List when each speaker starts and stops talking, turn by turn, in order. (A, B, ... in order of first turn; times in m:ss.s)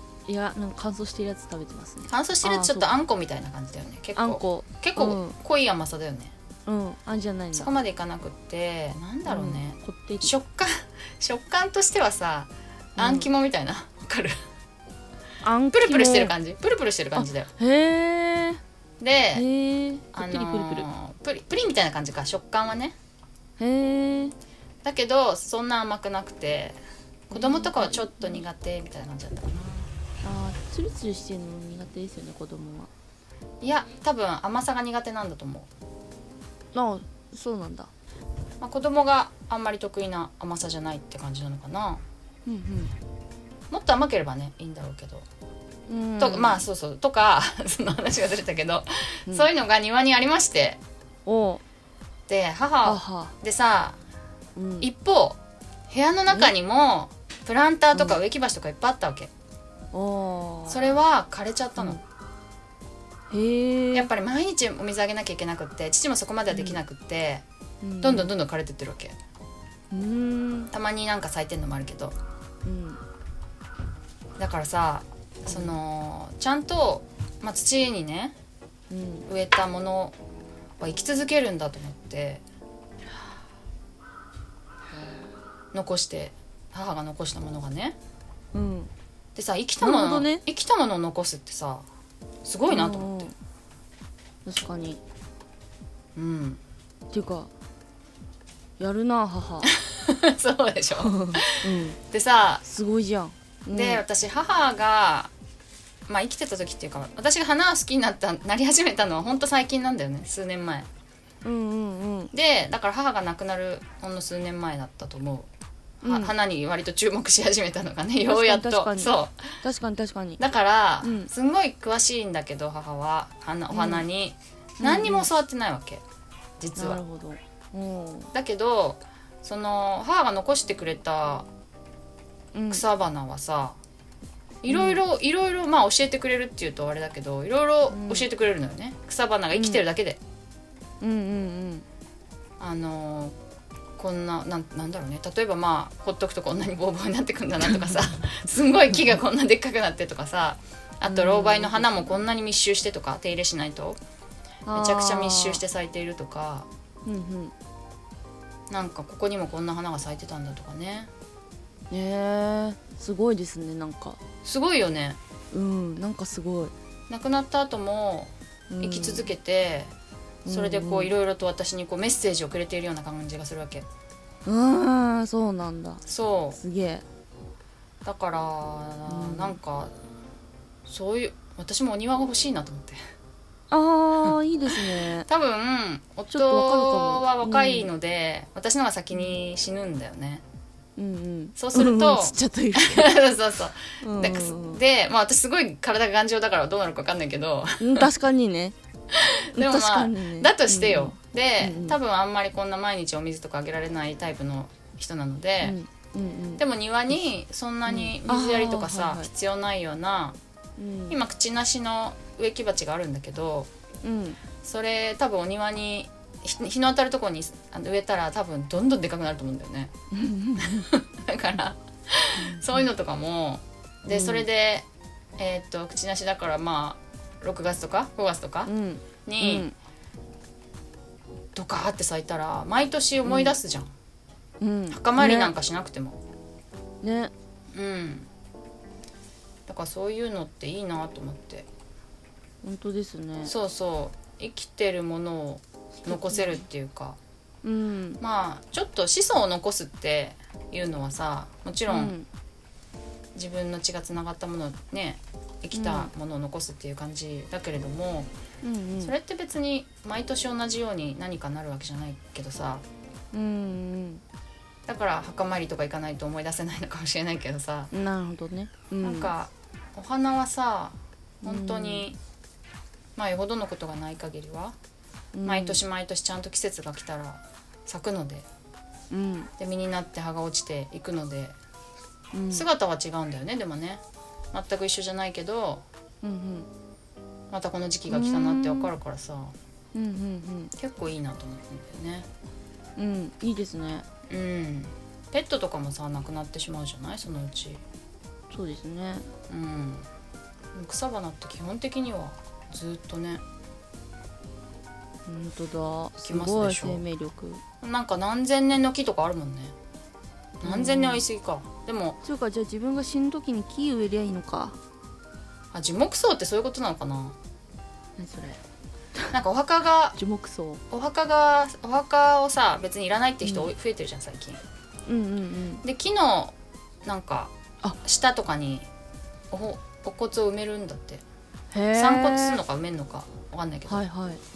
0:00.3-0:02.9 A
0:02.1-0:06.3 B
0:04.2-0:05.4 A
0:06.7-0:07.7 A
0:07.5-0:14.3 B
0:09.2-0:10.3 A
0:13.0-0:13.3 A
0:15.4-0:16.3 A
0:15.7-0:17.5 B
0:17.2-0:18.6 A
0:19.0-0:19.5 B
0:19.4-0:20.9 A
0:20.1-0:23.0 B
0:23.6-0:24.3 A
0:24.8-0:26.8 B
0:27.3-0:29.9 B
0:27.3-0:28.4 A
0:30.2-0:32.9 A
0:33.6-0:35.7 B
0:36.7-0:37.9 A
0:38.6-0:42.0 B
0:42.5-0:42.9 A
0:43.7-0:45.3 B
0:45.9-0:46.6 A
0:46.2-0:50.8 B
0:51.3-0:51.6 A
0:52.3-0:54.0 B
0:52.8-0:53.3 A
0:54.6-0:54.9 A
0:54.8-0:55.4 B
0:55.9-0:59.3 B
0:57.9-0:58.2 A
0:59.9-1:00.9 A
1:00.7-1:02.0 B
1:03.3-1:04.1 A
1:03.9-1:07.4 B
1:06.5-1:06.8 A
1:07.8-1:08.3 A
1:08.0-1:09.2 B
1:09.9-1:10.7 A
1:10.7-1:12.2 B
1:12.6-1:13.0 A
1:14.4-1:18.4 B
1:15.5-1:15.8 A
1:18.9-1:19.3 A
1:19.3-1:20.2 B
1:20.8-1:22.4 B
1:25.7-1:28.0 B
1:28.5-1:28.9 A
1:29.4-1:31.8 B
1:29.8-1:30.4 A
1:32.4-1:33.3 B
1:32.7-1:33.3 A
1:34.4-1:35.0 A
1:36.2-1:36.6 B
1:37.1-1:37.5 A
1:38.8-1:39.7 A
1:39.8-1:42.6 B
1:41.0-1:42.0 A
1:42.6-1:44.0 A
1:43.7-1:45.3 B
1:46.1-1:50.9 B
1:51.4-1:52.3 A
1:52.3-1:55.5 B
1:56.0-1:59.6 B
1:56.0-1:56.3 A
1:58.2-2:00.4 A
2:00.4-2:06.0 B
2:01.0-2:01.3 A
2:03.7-2:04.1 A
2:04.8-2:05.3 A
2:06.6-2:07.0 B
2:06.8-2:08.3 A
2:08.3-2:11.5 B
2:12.5-2:12.8 A
2:12.7-2:13.8 B
2:14.6-2:20.2 B
2:14.7-2:15.0 A
2:17.9-2:18.3 A
2:19.5-2:19.8 A
2:21.0-2:21.8 A
2:22.6-2:23.4 B
2:24.0-2:34.0 B
2:31.1-2:32.1 A
2:34.7-2:35.6 A
2:34.7-2:36.7 B
2:37.1-2:37.5 A
2:38.7-2:41.1 B
2:41.9-2:44.2 A
2:44.4-2:45.2 B
2:45.5-2:46.7 A
2:47.1-2:49.9 B
2:48.7-2:49.3 A
2:50.4-2:51.1 A
2:50.5-2:53.9 B
2:54.5-2:56.0 A
2:56.1-2:56.6 B
2:56.6-2:57.0 A
2:58.0-2:59.9 B
2:59.1-2:59.6 A
3:00.9-3:03.0 B
3:03.7-3:05.3 A
3:05.2-3:10.4 B
3:06.3-3:07.9 A
3:11.0-3:13.2 A
3:11.6-3:18.1 B
3:14.0-3:14.8 A
3:17.8-3:18.8 A
3:19.1-3:25.8 B
3:19.6-3:22.0 A
3:25.6-3:26.6 A
3:26.6-3:30.4 B
3:27.9-3:29.3 A
3:30.8-3:31.2 A
3:31.1-3:33.7 B
3:34.0-3:34.4 A
3:34.6-3:39.9 B
3:40.1-3:40.9 A
3:40.6-3:44.9 B
3:42.4-3:42.8 A
3:44.1-3:44.5 A
3:45.4-3:48.7 B
3:48.7-3:49.8 A
3:49.2-3:49.7 B
3:51.6-3:53.9 B
3:53.2-3:53.6 A
3:54.6-3:55.5 A
3:54.9-3:56.2 B
3:57.0-3:57.3 A
3:57.7-3:58.3 B
3:59.7-4:01.7 B
4:02.6-4:03.5 A
4:03.4-4:07.2 B
4:06.0-4:06.6 A
4:07.6-4:08.2 A
4:08.2-4:12.2 B
4:11.9-4:12.3 A
4:13.4-4:18.3 B
4:15.7-4:16.1 A
4:18.6-4:19.2 A
4:19.0-4:22.8 B
4:23.3-4:24.2 A
4:24.9-4:27.9 B
4:27.9-4:29.3 A
4:29.0-4:32.2 B
4:31.4-4:32.1 A
4:33.2-4:34.8 B
4:35.4-4:35.8 A
4:35.4-4:38.5 B
4:39.1-4:39.5 A
4:39.6-4:41.6 B
4:42.3-4:42.7 A
4:42.5-4:44.0 B
4:44.5-4:45.8 B
4:46.2-4:46.7 A
4:47.5-4:49.6 B
4:48.1-4:48.9 A
4:49.9-4:50.7 A
4:50.8-4:52.3 B
4:53.0-4:54.1 A
4:54.3-4:57.8 B
4:58.5-4:59.3 A
4:59.5-5:00.1 B
5:00.7-5:03.4 B
5:05.3-5:07.6 A
5:06.2-5:07.0 B
5:07.8-5:09.8 B
5:10.6-5:11.2 A
5:10.6-5:12.2 B
5:12.2-5:14.8 A
5:15.7-5:17.4 B
5:18.2-5:18.6 A
5:19.3-5:20.2 B
5:20.2-5:20.8 A
5:20.9-5:24.6 B
5:23.4-5:23.7 A
5:25.1-5:25.8 A
5:25.8-5:27.5 B
5:28.0-5:28.9 B
5:29.5-5:31.2 B
5:31.7-5:32.6 A
5:31.9-5:34.1 B
5:33.9-5:34.4 A